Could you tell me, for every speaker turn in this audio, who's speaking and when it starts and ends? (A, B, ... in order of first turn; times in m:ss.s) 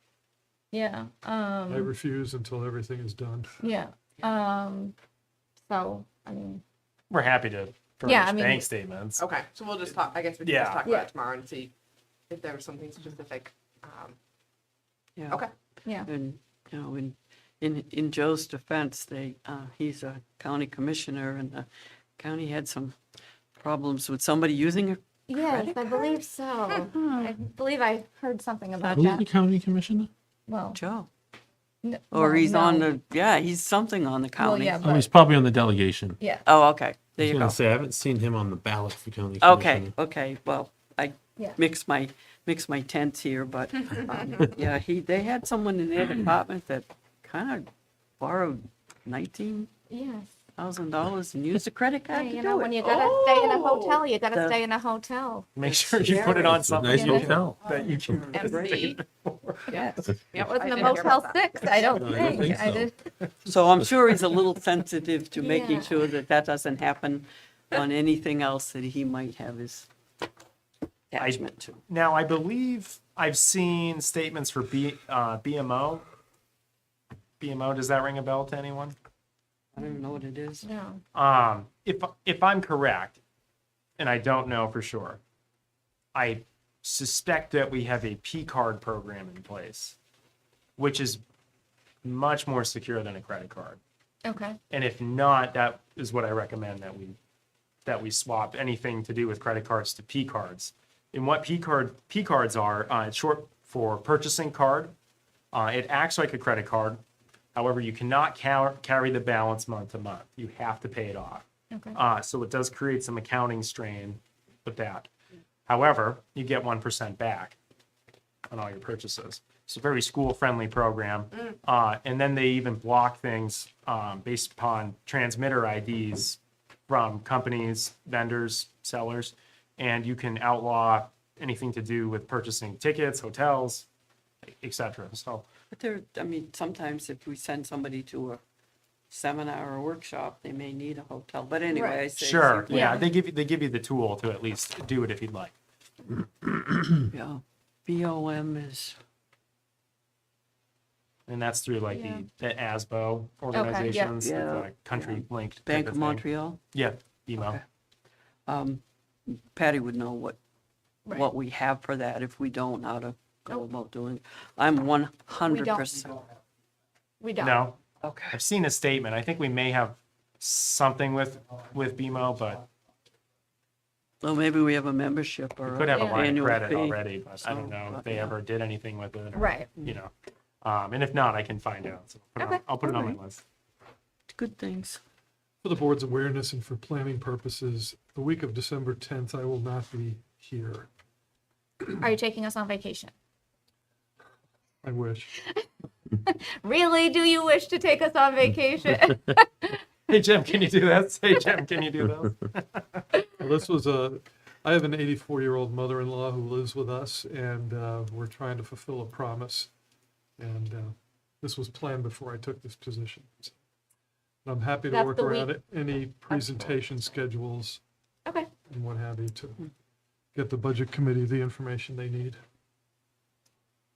0:00.7-0:01.9 A
0:01.7-0:03.6 B
0:03.6-0:04.9 A
0:05.6-0:06.6 A
0:07.1-0:09.2 C
0:08.0-0:08.7 A
0:09.2-0:11.7 D
0:10.4-0:10.8 C
0:10.8-0:11.1 A
0:12.3-0:14.2 D
0:15.2-0:15.5 E
0:16.0-0:21.6 E
0:22.2-0:23.0 E
0:23.6-0:26.1 E
0:25.3-0:29.3 A
0:28.9-0:30.1 F
0:30.5-0:30.8 A
0:30.7-0:31.1 E
0:31.8-0:32.9 A
0:32.1-0:34.9 E
0:34.4-0:35.1 A
0:34.8-0:36.2 F
0:36.2-0:36.4 A
0:36.4-0:37.6 E
0:37.2-0:39.9 F
0:39.4-0:49.7 E
0:49.9-0:50.3 A
0:50.6-0:53.0 E
0:52.1-0:55.5 A
0:53.0-0:54.0 D
0:55.6-0:59.8 C
0:55.6-0:56.7 E
0:56.2-0:58.2 F
0:56.9-0:57.4 A
0:57.9-0:58.4 E
0:58.4-0:58.8 D
0:58.4-0:58.9 A
0:59.7-1:00.1 E
1:00.3-1:02.9 A
1:00.4-1:01.4 D
1:01.9-1:02.9 F
1:03.4-1:09.9 E
1:05.4-1:05.9 A
1:11.1-1:11.8 E
1:11.2-1:16.0 C
1:17.4-1:19.0 C
1:19.7-1:20.6 E
1:20.6-1:21.0 A
1:21.1-1:23.2 C
1:24.0-1:25.2 C
1:26.1-1:30.0 C
1:30.8-1:31.2 C
1:32.0-1:33.8 C
1:34.2-1:34.6 A
1:34.7-1:37.2 C
1:37.8-1:44.9 C
1:45.5-1:47.0 C
1:47.5-1:55.1 C
1:51.7-1:52.0 A
1:55.7-1:57.6 C
1:58.5-2:13.8 C
2:14.4-2:15.4 C
2:15.7-2:18.4 E
2:19.1-2:23.0 E
2:21.7-2:22.0 A
2:22.2-2:25.5 C
2:22.7-2:23.1 A
2:27.1-2:29.0 E
2:31.3-2:37.6 C
2:31.9-2:32.2 A
2:33.5-2:34.1 A
2:33.8-2:36.6 E
2:37.4-2:37.6 E
2:38.5-2:40.4 E
2:41.1-2:46.2 E
2:45.5-2:45.9 A
2:47.2-2:47.6 A
2:47.4-2:47.8 C
2:48.0-2:48.4 E
2:48.3-2:52.6 C
2:54.2-2:58.4 E
2:55.6-3:03.4 C
2:55.9-2:56.2 A
2:59.3-2:59.7 A
3:02.4-3:02.9 A
3:02.8-3:03.2 E
3:04.3-3:05.0 E
3:05.6-3:10.9 B
3:12.0-3:13.1 A
3:14.8-3:15.3 B
3:16.2-3:19.8 A
3:20.1-3:23.0 C
3:23.4-3:29.7 B
3:30.4-3:33.6 B
3:34.4-3:37.8 B
3:34.9-3:35.5 A
3:36.3-3:36.7 A
3:38.7-3:39.7 B
3:40.3-3:42.4 B